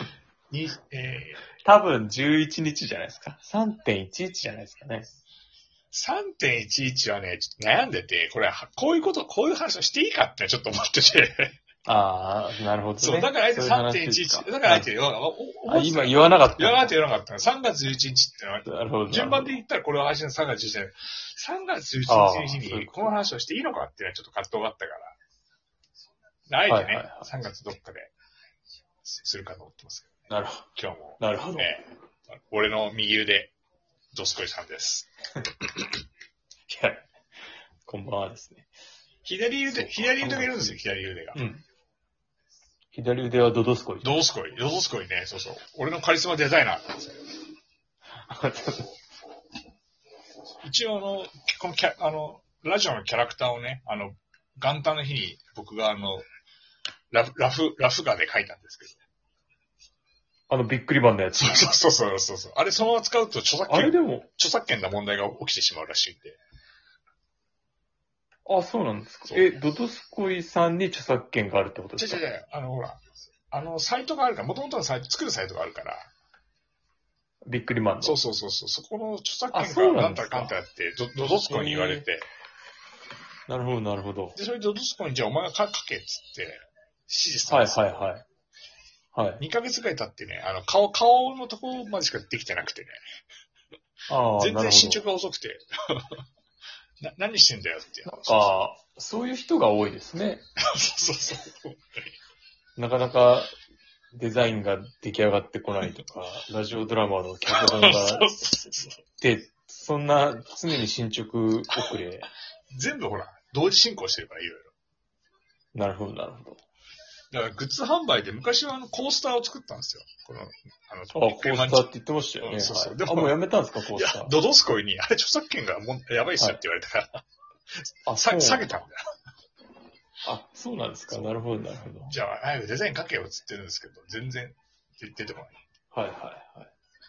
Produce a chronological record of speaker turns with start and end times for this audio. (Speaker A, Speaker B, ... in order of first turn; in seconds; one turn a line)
Speaker A: 0.5-1.5
Speaker B: 1.6-5.1
Speaker A: 5.9-11.6
Speaker B: 11.8-14.9
Speaker A: 13.0-25.1
Speaker B: 15.7-16.9
Speaker B: 18.6-19.6
Speaker B: 22.1-23.2
Speaker A: 26.5-28.1
Speaker B: 26.7-27.3
Speaker A: 29.0-30.2
Speaker B: 30.3-31.7
Speaker A: 30.7-33.5
Speaker A: 34.1-35.1
Speaker B: 36.7-37.0
Speaker B: 37.9-38.7
Speaker A: 39.2-41.4
Speaker B: 39.7-40.8
Speaker B: 41.3-41.6
Speaker B: 42.9-44.2
Speaker A: 44.0-47.3
Speaker B: 48.2-48.9
Speaker A: 50.6-56.2
Speaker A: 57.1-59.0
Speaker B: 60.5-61.8
Speaker A: 61.4-66.4
Speaker B: 63.7-64.3
Speaker B: 68.5-72.2
Speaker A: 72.0-73.0
Speaker A: 73.5-76.1
Speaker B: 77.5-78.2
Speaker A: 78.0-82.3
Speaker B: 79.5-80.5
Speaker B: 81.2-82.0
Speaker B: 83.5-84.4
Speaker A: 84.3-88.1
Speaker B: 87.5-88.2
Speaker B: 89.1-89.4
Speaker A: 89.4-93.0
Speaker B: 94.1-95.0
Speaker A: 94.4-96.2
Speaker A: 97.0-98.5
Speaker B: 98.0-100.4
Speaker A: 100.7-102.1
Speaker B: 102.8-103.5
Speaker B: 104.1-108.3
Speaker A: 107.5-109.0
Speaker B: 109.2-112.3
Speaker A: 112.7-114.7
Speaker B: 115.7-116.6
Speaker A: 117.3-121.9
Speaker B: 121.1-124.3
Speaker A: 122.4-123.3
Speaker A: 123.9-127.2
Speaker A: 127.7-129.0
Speaker B: 128.1-128.7
Speaker B: 130.2-132.1
Speaker A: 132.0-135.6
Speaker B: 135.9-136.7